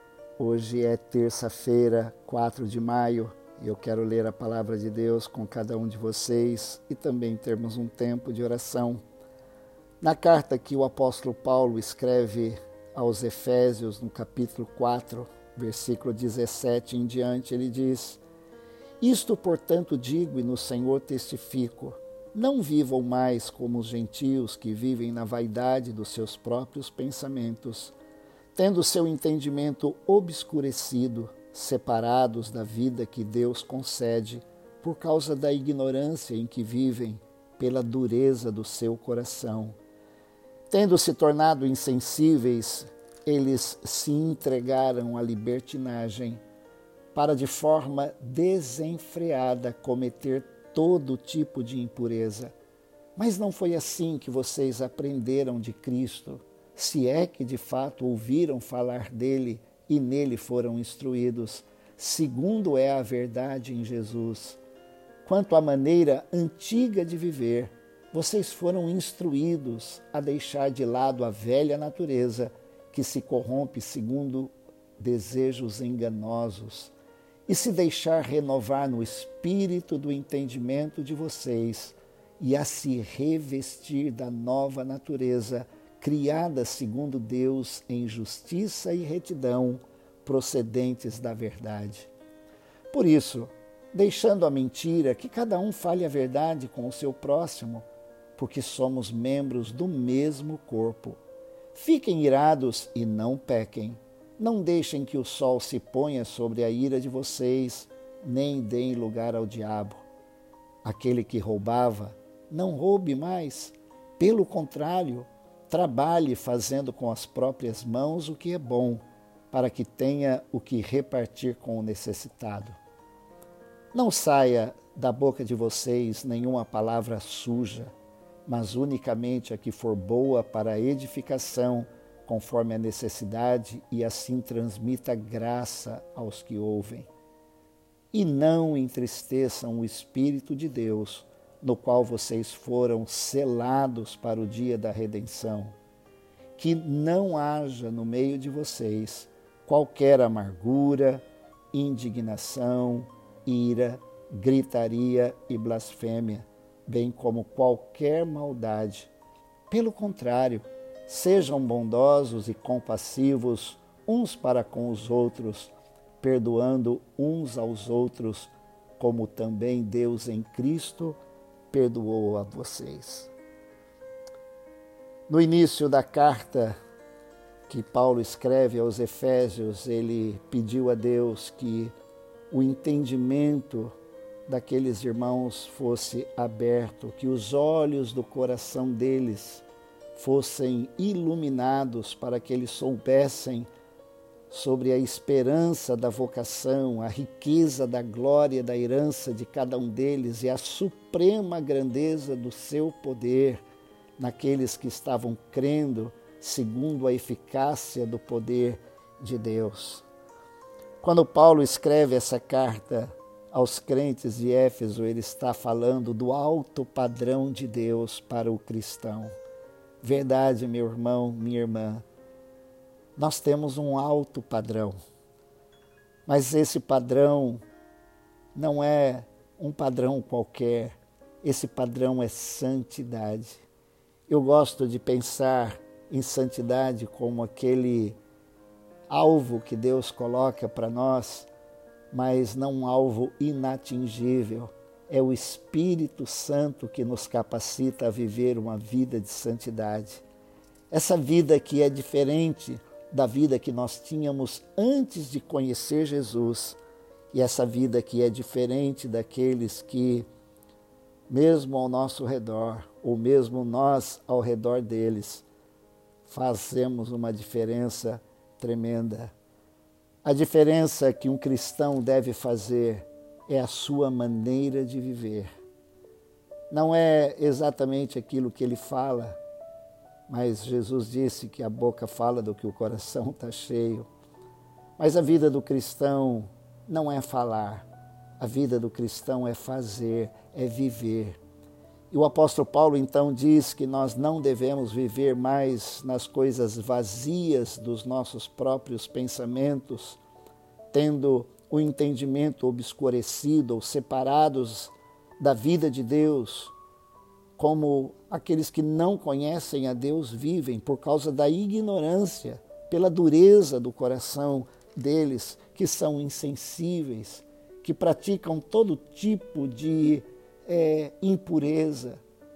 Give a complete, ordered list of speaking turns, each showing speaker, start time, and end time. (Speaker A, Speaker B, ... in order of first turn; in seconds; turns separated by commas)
Speaker A: 0.4-9.0, Speaker A: 10.0-18.2, Speaker A: 19.0-27.9, Speaker A: 28.6-39.8, Speaker A: 40.7-46.4, Speaker A: 47.1-52.5, Speaker A: 53.2-64.6, Speaker A: 65.2-76.9, Speaker A: 77.5-92.1, Speaker A: 92.9-97.9, Speaker A: 98.4-101.2, Speaker A: 101.7-110.0, Speaker A: 110.8-122.8, Speaker A: 123.9-127.9, Speaker A: 128.5-137.1, Speaker A: 138.1-145.7, Speaker A: 146.6-159.1, Speaker A: 159.7-171.2, Speaker A: 171.7-173.3, Speaker A: 175.3-176.8, Speaker A: 177.7-181.9, Speaker A: 182.5-183.9, Speaker A: 184.5-193.7, Speaker A: 194.5-203.6, Speaker A: 204.2-210.1, Speaker A: 211.0-219.3, Speaker A: 220.0-222.1, Speaker A: 223.2-225.0, Speaker A: 226.3-227.6, Speaker A: 228.6-233.6, Speaker A: 234.3-238.2, Speaker A: 239.1-241.5, Speaker A: 242.1-250.2, Speaker A: 250.9-256.8, Speaker A: 257.3-260.3, Speaker A: 261.3-265.5, Speaker A: 266.3-269.3, Speaker A: 270.2-275.5, Speaker A: 276.7-279.4, Speaker A: 280.3-284.1, Speaker A: 285.0-287.9, Speaker A: 288.4-291.4, Speaker A: 292.1-300.2, Speaker A: 300.9-306.7, Speaker A: 307.6-322.2